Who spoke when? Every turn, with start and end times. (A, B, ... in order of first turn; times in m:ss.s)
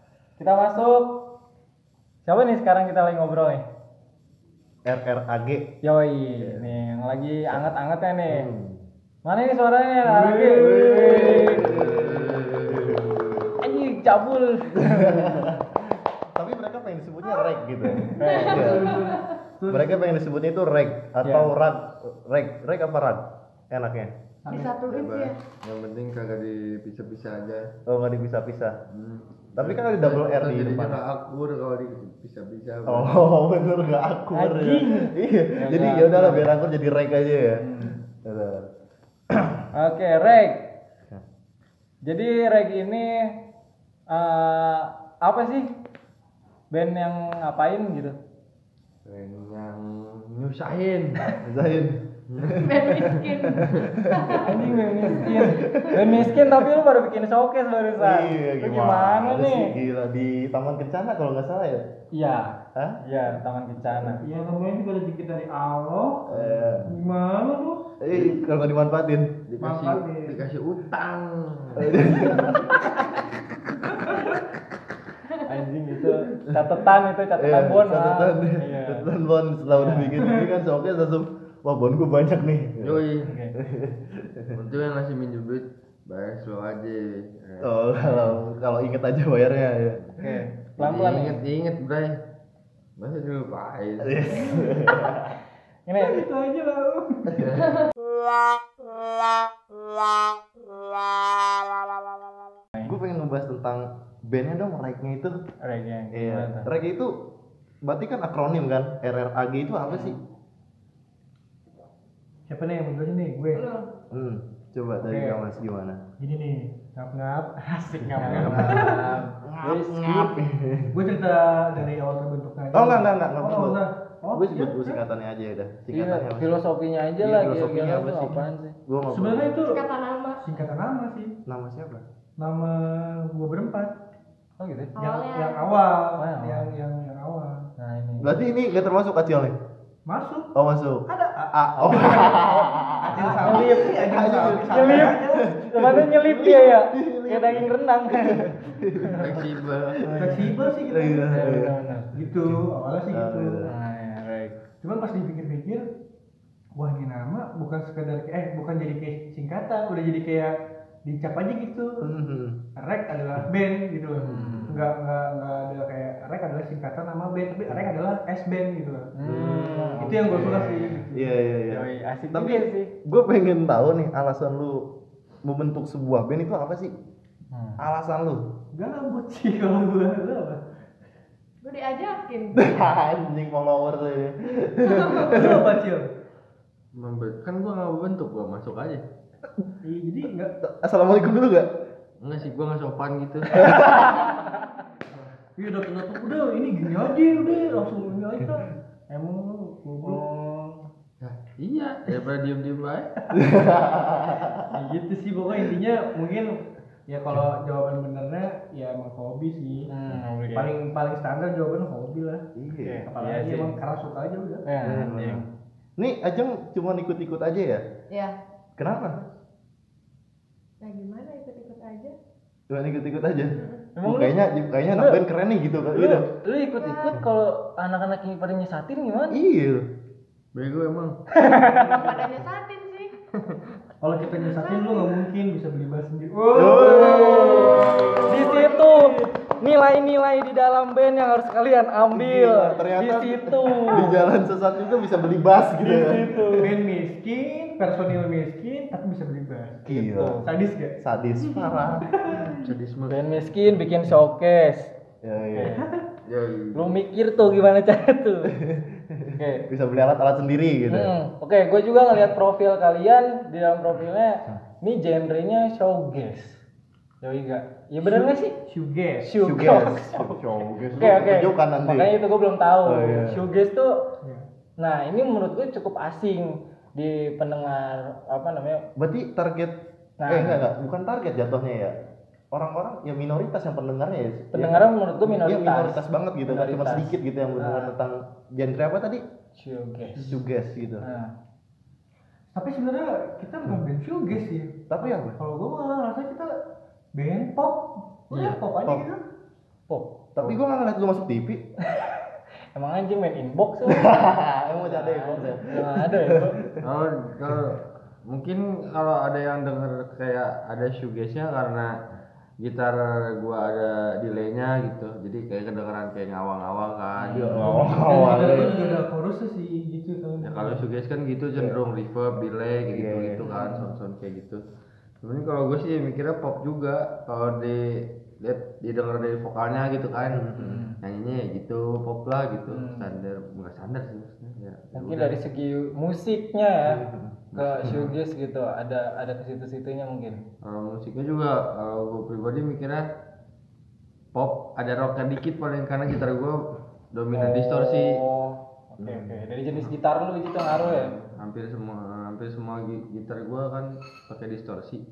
0:00.4-0:01.2 A
0:02.2-0:03.6 A
0:04.8-0:05.7 B
0:05.8-0:08.5 A
0:06.4-0:06.7 B
0:08.3-0:08.8 B
0:09.2-0:11.7 A
0:10.0-0:12.9 C
0:11.4-0:13.5 D
0:11.4-0:13.5 B
0:13.6-0:15.5 A
0:14.7-0:19.0 B
0:17.3-0:17.5 E
0:17.8-0:20.0 C
0:18.1-0:18.9 A
0:18.2-0:19.4 E
0:19.7-0:24.1 B
0:21.2-0:21.5 A
0:24.4-0:24.8 C
0:24.5-0:25.4 E
0:24.9-0:27.7 D
0:27.9-0:28.8 B
0:28.9-0:33.2 D
0:29.6-0:31.0 B
0:32.9-0:37.6 B
0:34.3-0:36.5 A
0:37.6-0:38.0 A
0:38.2-0:38.7 B
0:39.3-0:39.7 B
0:39.7-0:40.6 A
0:42.0-0:43.3 A
0:44.1-0:45.7 A
0:46.7-0:48.2 A
0:49.0-0:51.2 D
0:51.4-0:56.7 B
0:52.3-0:53.9 D
0:52.5-0:54.5 E
0:54.4-0:59.7 A
0:55.6-0:55.9 E
0:58.0-1:01.8 B
1:02.1-1:04.2 A
1:02.7-1:03.0 B
1:03.8-1:04.1 B
1:04.2-1:07.9 C
1:06.3-1:07.0 B
1:08.0-1:09.4 B
1:08.1-1:08.4 D
1:09.5-1:12.5 D
1:09.6-1:10.4 C
1:11.8-1:12.9 B
1:13.8-1:14.4 C
1:15.4-1:19.1 A
1:16.4-1:16.8 B
1:17.4-1:23.0 B
1:19.7-1:20.2 A
1:20.2-1:20.5 C
1:22.8-1:23.3 D
1:23.2-1:23.5 A
1:23.5-1:24.6 B
1:24.5-1:27.7 D
1:27.6-1:30.1 B
1:28.0-1:28.4 A
1:30.2-1:31.4 A
1:30.8-1:32.2 D
1:33.0-1:34.3 D
1:34.0-1:35.3 B
1:34.3-1:34.9 C
1:35.9-1:36.2 A
1:36.0-1:37.5 C
1:37.4-1:37.8 D
1:37.6-1:37.9 E
1:42.8-1:45.4 B
1:45.6-1:46.7 A
1:46.1-1:47.1 B
1:47.8-1:50.2 B
1:49.9-1:50.1 A
1:52.5-1:53.6 C
1:53.5-1:53.9 E
1:54.1-1:56.0 B
1:55.0-1:55.4 C
1:56.2-1:59.1 C
1:58.2-2:00.3 A
1:58.2-1:59.0 D
1:59.4-2:01.0 B
2:00.9-2:05.0 C
2:02.7-2:03.8 B
2:04.3-2:06.6 B
2:05.9-2:08.8 A
2:07.2-2:09.6 B
2:09.1-2:09.8 C
2:09.6-2:10.4 E
2:10.4-2:11.4 C
2:11.4-2:12.0 B
2:12.4-2:13.9 C
2:14.6-2:14.9 A
2:14.9-2:15.8 E
2:15.0-2:17.6 C
2:16.2-2:16.7 A
2:17.8-2:18.3 A
2:18.2-2:19.6 B
2:20.0-2:20.5 C
2:20.5-2:29.4 B
2:21.0-2:22.5 C
2:23.1-2:25.5 C
2:23.1-2:25.2 A
2:25.7-2:29.4 A
2:29.2-2:30.0 D
2:30.0-2:31.7 B
2:30.0-2:30.5 A
2:30.1-2:31.3 C
2:31.3-2:32.4 A
2:32.1-2:33.6 C
2:32.5-2:33.7 B
2:33.7-2:34.6 A
2:34.8-2:35.8 C
2:36.7-2:42.1 C
2:42.0-2:42.6 B
2:42.8-2:49.1 C
2:44.2-2:44.8 A
2:44.3-2:44.8 B
2:49.1-2:51.0 A
2:49.2-2:50.4 B
2:50.0-2:51.3 C
2:51.1-2:54.9 B
2:51.7-2:52.9 A
2:55.4-2:56.9 B
2:57.5-2:57.8 A
2:57.8-2:58.4 B
2:58.7-3:00.6 C
3:01.6-3:02.8 E
3:02.6-3:05.7 B
3:04.8-3:05.3 E
3:05.2-3:06.0 C
3:06.9-3:09.0 D
3:09.8-3:10.5 C
3:10.6-3:11.7 B
3:12.2-3:13.7 D
3:13.5-3:14.4 B
3:15.6-3:20.2 C
3:20.0-3:20.8 A
3:21.2-3:23.1 D
3:23.3-3:24.9 B
3:24.7-3:29.9 C
3:29.9-3:30.7 A
3:30.5-3:32.4 C
3:32.6-3:33.0 B
3:32.8-3:33.8 A
3:33.1-3:34.6 C
3:34.6-3:35.4 A
3:34.8-3:35.4 B
3:36.0-3:37.8 B
3:38.8-3:39.2 B
3:38.9-3:39.3 E
3:40.8-3:42.1 E
3:42.7-3:46.3 B
3:43.5-3:43.8 E
3:44.0-3:45.2 A
3:45.9-3:49.4 A
3:46.8-3:47.1 E
3:49.3-3:49.8 B
3:50.5-3:51.2 D
3:51.3-3:52.2 A
3:51.6-3:53.2 E
3:53.3-3:53.6 D
3:54.0-3:59.3 C
3:54.2-3:55.1 E
3:56.5-3:58.1 B
3:56.6-4:04.2 A
4:02.1-4:06.6 B
4:05.8-4:06.7 A
4:06.6-4:09.8 C
4:09.8-4:10.4 B
4:09.9-4:10.4 A
4:10.4-4:10.9 C
4:11.0-4:12.1 B
4:12.0-4:12.6 C
4:12.6-4:13.2 D
4:13.1-4:14.9 A
4:15.2-4:15.8 B
4:15.5-4:15.8 A
4:15.8-4:16.0 C
4:16.2-4:16.8 D
4:16.7-4:18.6 A
4:18.5-4:21.1 B
4:19.3-4:19.6 A
4:20.9-4:26.6 A
4:27.2-4:28.6 A
4:28.0-4:29.3 C
4:29.2-4:30.4 A
4:29.4-4:32.1 B
4:30.9-4:34.0 A
4:32.8-4:33.4 B
4:34.8-4:38.8 A
4:39.0-4:39.7 B
4:40.2-4:40.6 A
4:40.3-4:41.9 B
4:42.5-4:49.2 B
4:44.5-4:47.9 A
4:49.6-4:50.4 A
4:50.2-4:51.0 B
4:51.0-4:51.3 A
4:52.5-4:56.5 C
4:54.9-4:55.4 B
4:57.1-4:59.2 C
4:58.8-4:59.1 B
5:00.4-5:01.6 B
5:01.8-5:02.2 A
5:02.7-5:04.2 A
5:03.8-5:06.8 B
5:04.8-5:06.6 A
5:06.8-5:11.9 D
5:12.6-5:17.8 D
5:17.2-5:17.7 A
5:17.3-5:18.7 B
5:17.6-5:20.8 C
5:18.2-5:19.1 E
5:20.4-5:24.6 D
5:22.9-5:23.5 B
5:23.4-5:24.0 A
5:25.2-5:35.4 D
5:30.3-5:30.8 B
5:30.6-5:31.0 A
5:32.7-5:33.1 A
5:34.9-5:37.0 A
5:36.8-5:38.0 B
5:37.5-5:40.4 A
5:37.6-5:38.1 D
5:40.6-5:43.0 D
5:44.3-5:48.2 D
5:47.3-5:51.1 A
5:49.0-5:49.4 B
5:50.7-5:55.0 D